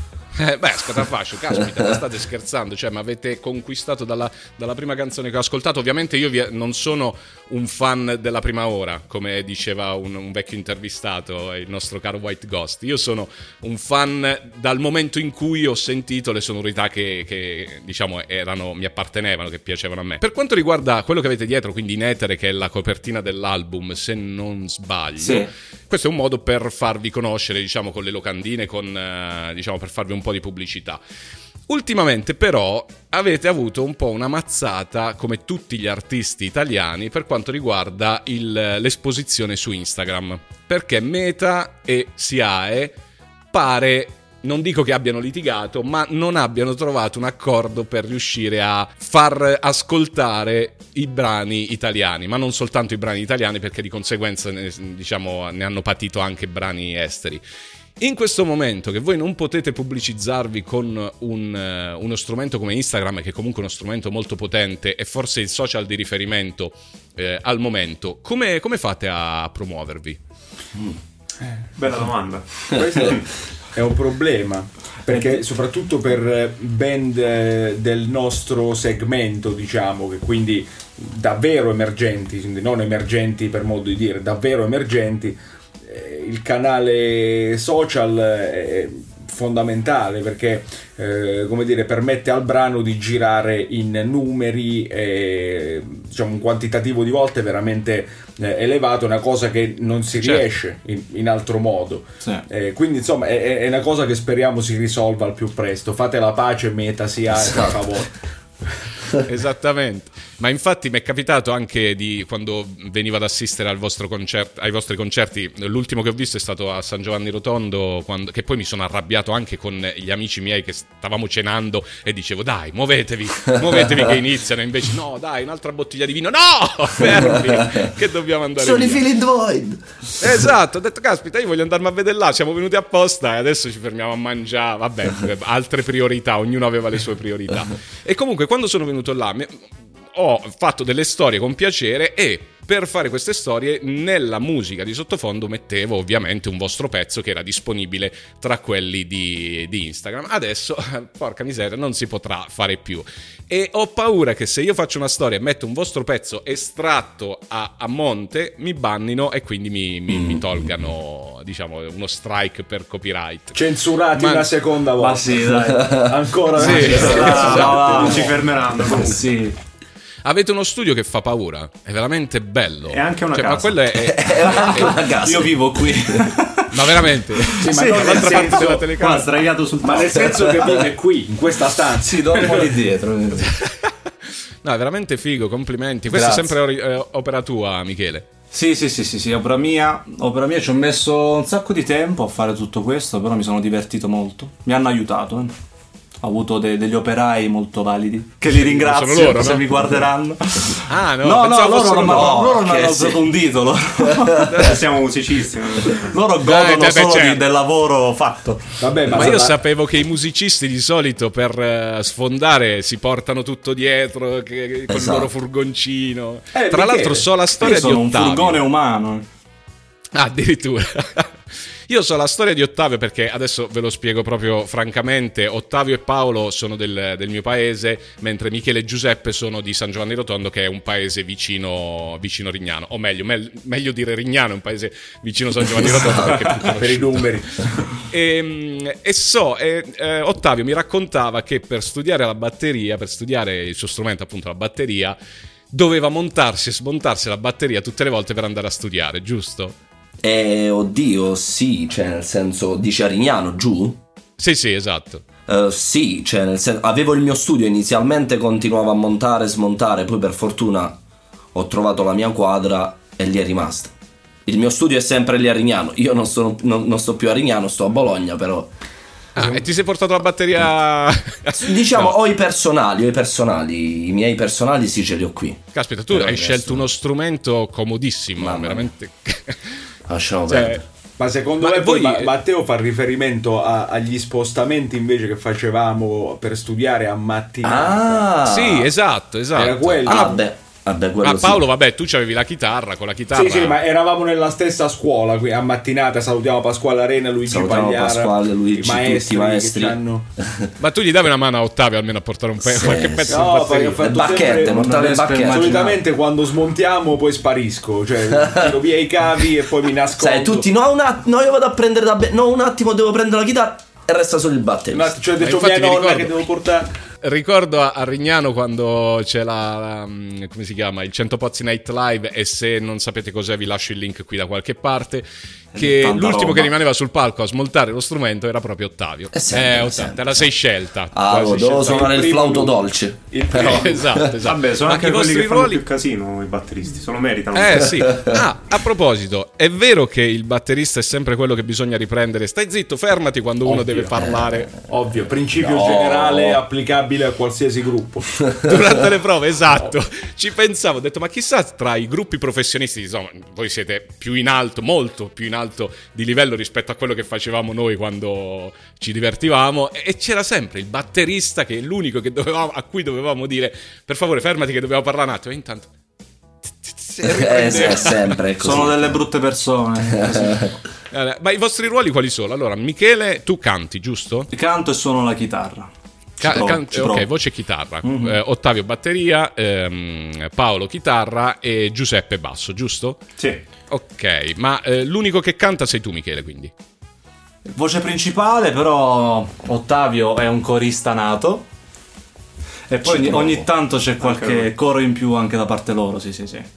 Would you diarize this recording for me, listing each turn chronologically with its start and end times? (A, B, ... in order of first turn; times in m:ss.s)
0:00.4-0:31.0 A
0:25.2-0:25.5 B
0:31.7-0:43.0 A
0:43.5-0:57.4 A
0:58.0-1:10.2 A
1:11.8-1:13.2 C
1:12.7-1:48.1 D
1:47.4-1:47.8 E
1:49.2-2:09.0 A
2:07.5-2:07.8 E
2:08.6-2:10.5 E
2:10.2-2:43.6 A
2:40.1-2:40.6 E
2:43.5-2:48.4 D
2:44.1-2:44.5 A
2:45.0-2:49.6 B
2:45.7-2:46.1 E
2:46.6-2:48.1 A
2:47.0-2:49.3 C
2:50.2-2:55.0 A
2:52.9-2:53.8 C
2:53.9-2:56.3 E
2:54.6-2:58.8 B
2:56.7-2:59.4 A
2:57.6-2:58.9 D
2:58.2-3:00.3 C
2:59.8-3:02.7 D
3:00.1-3:00.9 E
3:02.0-3:03.6 B
3:03.5-3:03.9 A
3:04.6-3:08.3 A
3:06.1-3:06.5 B
3:08.5-3:15.5 B
3:16.2-3:24.6 B
3:18.6-3:19.7 A
3:20.9-3:22.5 A
3:22.1-3:23.3 E
3:24.0-3:24.6 E
3:24.5-3:24.7 A
3:24.6-3:26.2 C
3:25.9-3:29.3 B
3:26.4-3:27.4 A
3:28.8-3:29.6 D
3:29.1-3:38.6 A
3:34.9-3:35.3 E
3:36.5-3:37.3 D
3:37.6-3:39.3 B
3:40.2-3:41.3 A
3:41.9-3:57.3 A
3:55.8-3:56.6 E
3:56.6-3:57.7 D
3:58.1-4:05.2 A
4:05.7-4:09.8 A
4:10.2-4:14.0 E
4:14.4-4:15.2 A
4:15.5-4:21.0 E
4:21.5-4:23.9 E
4:24.5-4:28.7 E
4:29.4-4:32.2 A
4:31.5-4:36.9 E
4:35.7-4:39.6 A
4:38.4-4:38.9 E
4:40.1-4:40.8 E
4:40.5-4:40.8 A
4:41.2-4:48.3 D
4:41.6-4:42.3 A
4:47.6-4:48.9 E
4:48.4-4:50.4 A
4:49.6-4:50.4 D
4:50.0-4:51.7 E
4:51.2-4:53.8 A
4:53.3-5:00.3 D
4:57.5-5:00.7 E
5:00.8-5:04.4 A
5:02.6-5:05.9 E
5:03.3-5:10.7 D
5:04.5-5:06.0 B
5:08.3-5:08.8 E
5:10.2-5:15.2 E
5:14.9-5:16.9 D
5:15.4-5:16.4 A
5:17.2-5:32.2 A
5:25.7-5:26.7 B
5:29.3-5:30.5 E
5:31.1-5:34.3 E
5:31.7-5:34.2 D
5:33.5-5:35.8 A
5:34.4-5:38.1 C
5:37.5-5:44.7 A
5:44.2-5:44.7 E
5:44.9-5:48.6 D
5:45.6-5:46.6 E
5:48.6-6:05.9 A
6:06.8-6:08.4 A
6:07.2-6:09.2 E
6:08.5-6:10.8 B
6:10.2-6:10.7 E
6:11.1-6:14.5 A
6:14.5-6:17.3 B
6:16.4-6:23.2 A
6:18.0-6:18.4 B
6:23.9-6:26.7 A
6:27.7-6:31.7 B
6:32.9-6:36.7 B
6:33.0-6:33.7 E
6:34.2-6:34.7 C